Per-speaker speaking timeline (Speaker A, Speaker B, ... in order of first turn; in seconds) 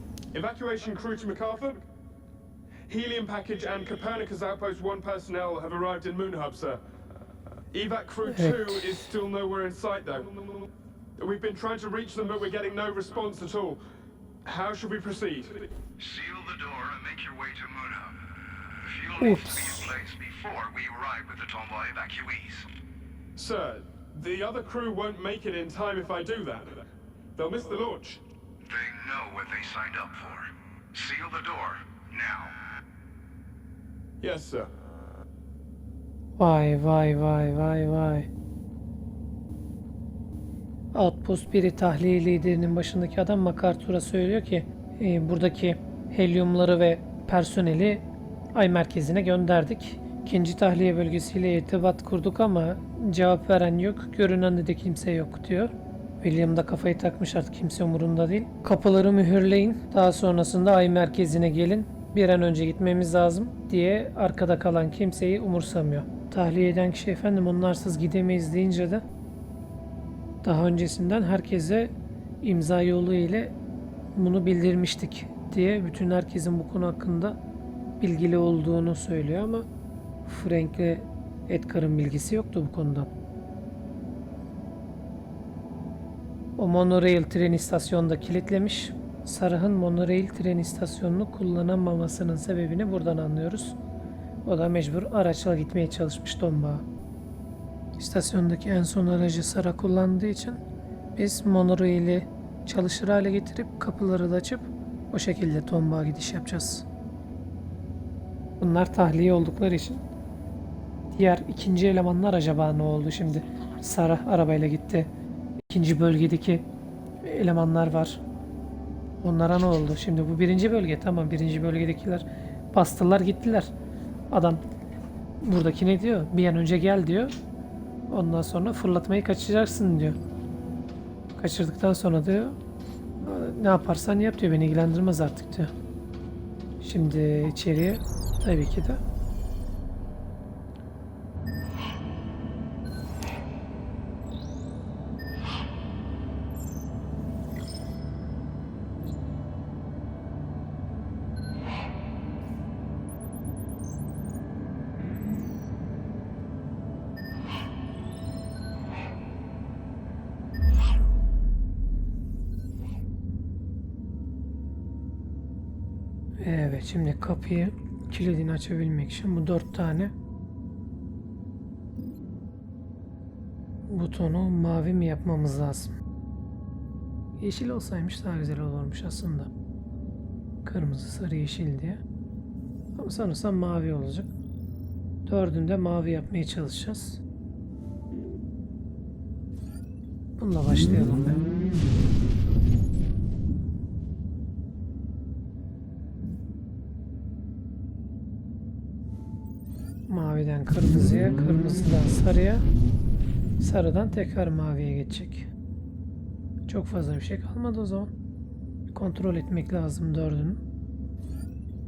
Speaker A: 0.3-1.8, 2.9-6.8, 7.7-10.6, 11.2-13.8, 14.4-15.7, 23.4-26.8, 27.4-28.2, 34.2-34.7
Speaker B: 8.3-9.1, 19.1-19.9, 36.4-38.3, 40.9-69.0, 70.4-73.5, 74.1-77.4, 78.0-79.7, 80.2-83.1, 86.5-93.8, 94.4-96.8, 98.0-100.6, 101.2-106.8, 108.6-110.0, 111.1-116.6, 117.2-118.2, 119.2-123.7, 124.3-124.6, 125.4-127.3, 128.1-130.2, 131.3-132.6, 133.2-135.7, 136.8-139.0, 166.4-170.1, 173.9-175.9, 177.4-179.5, 180.6-182.0, 182.9-184.3, 185.2-187.2, 190.4-191.4, 200.1-202.7, 203.6-205.5, 206.7-208.1, 208.9-210.6
Speaker C: 16.0-18.2, 18.8-22.7, 28.6-32.5